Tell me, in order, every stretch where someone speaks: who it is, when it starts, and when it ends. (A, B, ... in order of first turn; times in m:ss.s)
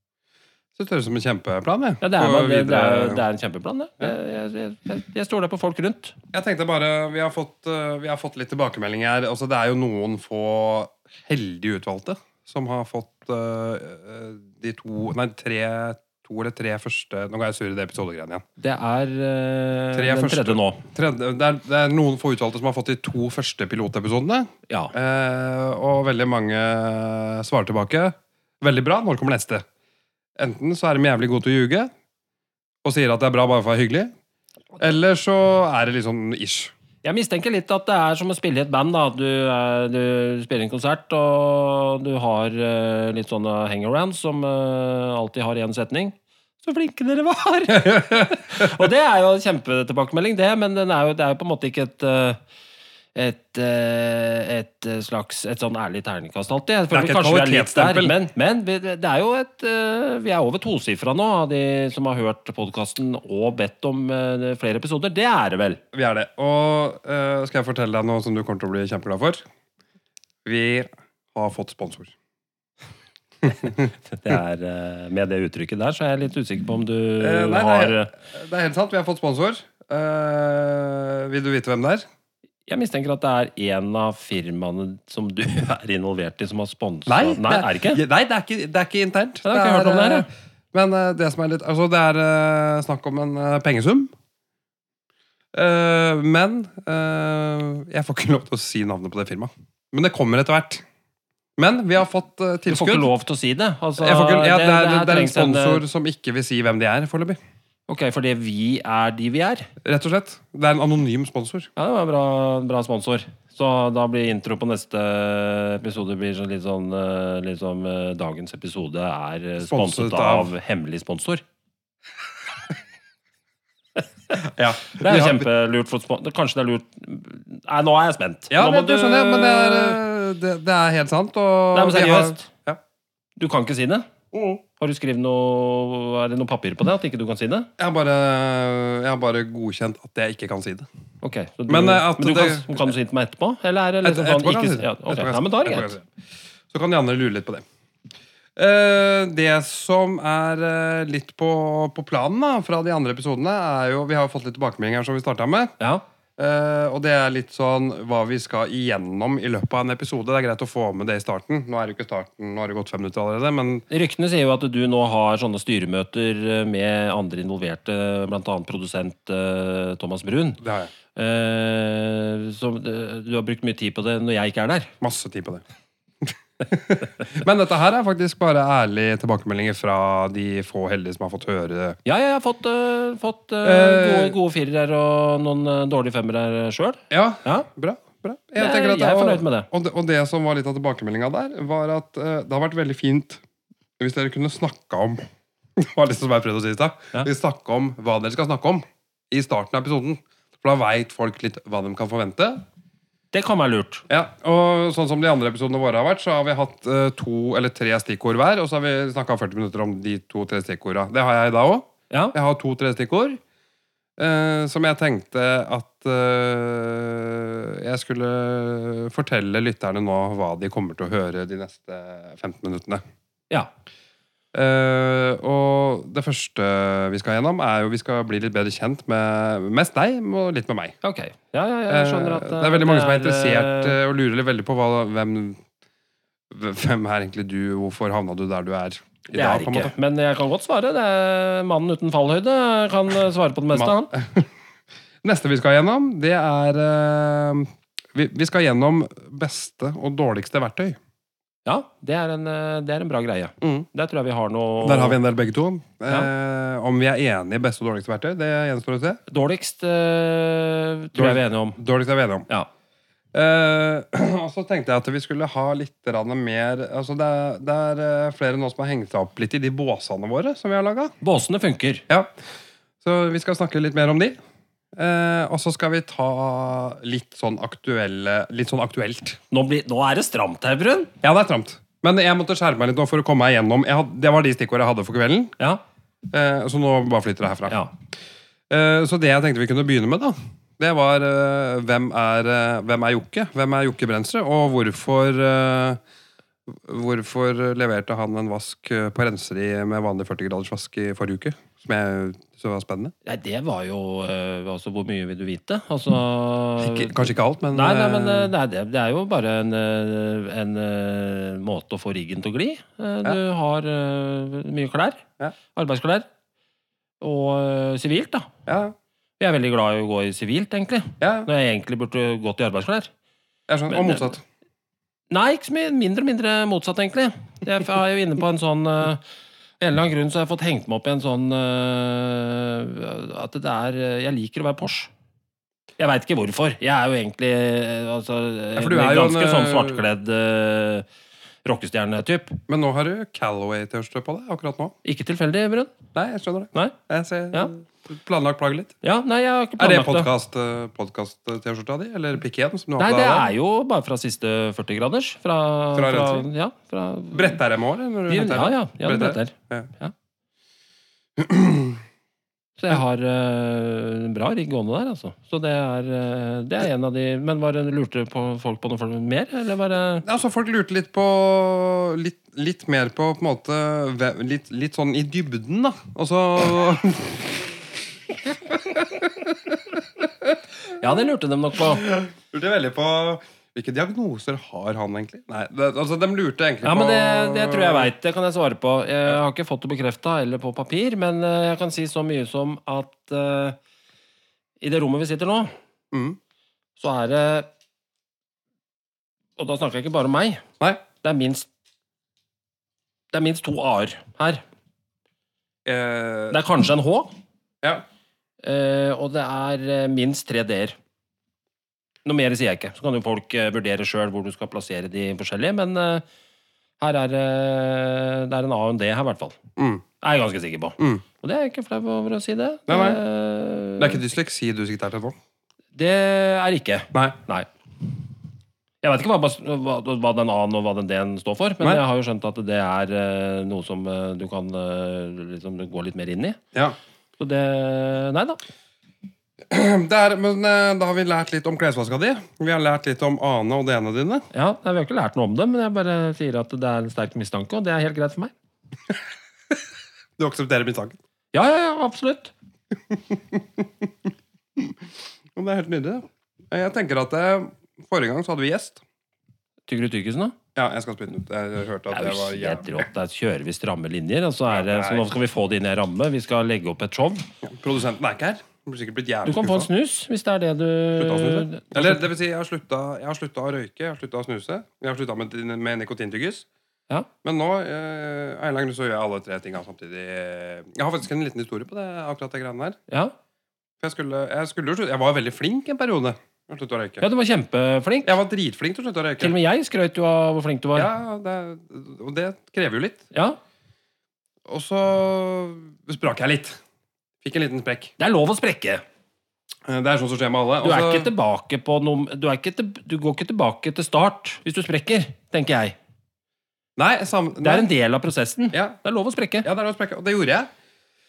0:00.8-0:03.2 A
0:02.0-0:06.2 B
0:06.3-0:18.4 A
0:18.6-0:20.8 B
0:19.9-0:29.6 A
0:30.4-0:31.9 A
0:32.8-0:34.1 A
0:34.8-0:36.7 A
0:37.0-0:52.4 B
0:47.8-0:48.4 A
0:53.1-1:05.8 B
0:56.9-0:58.2 A
1:05.9-1:09.4 A
1:10.4-1:12.1 A
1:13.4-1:13.8 A
1:13.7-1:18.1 B
1:17.2-1:22.0 A
1:22.7-1:28.0 B
1:27.0-1:34.1 A
1:29.4-1:30.3 B
1:35.5-1:40.8 A
1:41.6-1:43.1 A
1:42.7-1:45.8 B
1:44.0-1:47.4 A
1:47.9-1:49.7 B
1:49.8-1:51.7 A
1:51.8-2:01.4 B
1:59.6-2:00.5 A
2:04.4-2:05.4 A
2:04.9-2:10.0 B
2:08.5-2:12.8 A
2:11.7-2:12.5 B
2:13.4-2:14.1 B
2:14.3-2:14.6 A
2:14.8-2:17.7 B
2:17.8-2:20.9 A
2:21.2-2:25.9 B
2:21.7-2:22.9 A
2:24.0-2:26.1 A
2:26.7-2:27.6 A
2:28.6-2:35.7 A
2:36.4-2:43.9 A
2:43.9-2:50.6 B
2:50.6-2:50.9 A
2:51.1-2:54.9 B
2:55.0-2:55.6 A
2:56.2-3:02.0 A
3:02.0-3:07.7 B
3:03.6-3:04.4 A
3:07.1-3:13.4 A
3:08.6-3:09.7 B
3:14.0-3:15.2 A
3:15.8-3:22.6 A
3:23.3-3:24.0 B
3:24.1-3:33.4 A
3:34.2-3:43.0 A
3:44.5-3:51.0 A
3:51.0-3:54.0 B
3:51.9-3:55.6 A
3:56.5-3:59.9 A
3:59.3-4:04.1 B
4:03.7-4:04.5 A
4:05.2-4:11.0 A
4:11.6-4:15.2 B
4:13.6-4:13.9 A
4:14.8-4:19.2 A
4:19.3-4:21.8 B
4:21.1-4:22.5 A
4:23.3-4:31.1 A
4:31.2-4:32.0 B
4:33.0-4:34.4 A
4:34.9-4:39.4 A
4:39.5-4:41.1 B
4:41.2-4:45.6 A
4:46.3-4:47.8 A
4:48.7-4:56.0 A
4:56.7-5:03.1 A
5:03.2-5:16.3 B
5:06.8-5:08.5 A
5:17.2-5:18.5 B
5:18.6-5:18.9 A
5:19.4-5:23.1 B
5:21.2-5:21.5 A
5:23.7-5:24.4 A
5:23.9-5:24.3 B
5:25.3-5:29.2 B
5:29.8-5:35.1 B
5:36.0-5:41.0 B
5:38.8-5:40.0 A
5:41.6-5:42.6 B
5:42.7-5:45.0 A
5:45.0-5:45.9 B
5:46.1-5:49.0 A
5:49.0-5:50.3 B
5:49.8-5:53.5 A
5:53.0-5:57.6 B
5:55.9-5:56.5 A
5:57.3-5:59.9 A
5:58.3-6:00.1 B
6:01.4-6:02.0 A
6:02.8-6:10.2 B
6:10.2-6:17.7 A
6:18.8-6:19.8 A
6:21.0-6:22.1 B
6:22.0-6:28.1 A
6:26.8-6:33.8 B
6:34.8-6:35.7 B
6:36.1-6:36.4 A
6:37.0-6:37.7 B
6:39.6-6:40.6 B
6:41.2-6:41.7 B
6:43.3-6:44.6 B
6:45.8-6:46.6 A
6:46.5-6:47.3 B
6:48.6-6:51.0 B
6:52.2-6:56.2 B
6:57.0-6:59.6 B
6:59.8-7:00.0 A
7:00.2-7:04.2 B
7:01.0-7:01.2 A
7:02.9-7:03.2 A
7:04.0-7:05.4 A
7:06.0-7:07.7 B
7:09.0-7:16.6 B
7:17.4-7:18.6 B
7:19.7-7:24.5 A
7:24.5-7:28.5 B
7:30.4-7:31.2 A
7:31.5-7:32.5 B
7:33.1-7:34.1 A
7:35.6-7:39.0 A
7:39.9-7:40.6 B
7:40.7-7:43.1 A
7:42.1-7:47.4 B
7:44.7-7:45.3 A
7:47.6-7:49.9 A
7:49.4-7:52.3 B
7:51.2-7:56.6 A
7:57.4-8:03.0 A
8:04.0-8:07.2 A
8:07.2-8:08.4 B
8:08.2-8:09.5 A
8:09.4-8:11.1 B
8:10.9-8:13.2 A
8:13.3-8:13.6 B
8:14.7-8:16.8 A
8:17.4-8:18.1 A
8:18.2-8:19.0 B
8:19.8-8:21.3 A
8:20.8-8:26.0 B
8:27.0-8:27.9 A
8:27.6-8:29.7 B
8:29.6-8:30.7 A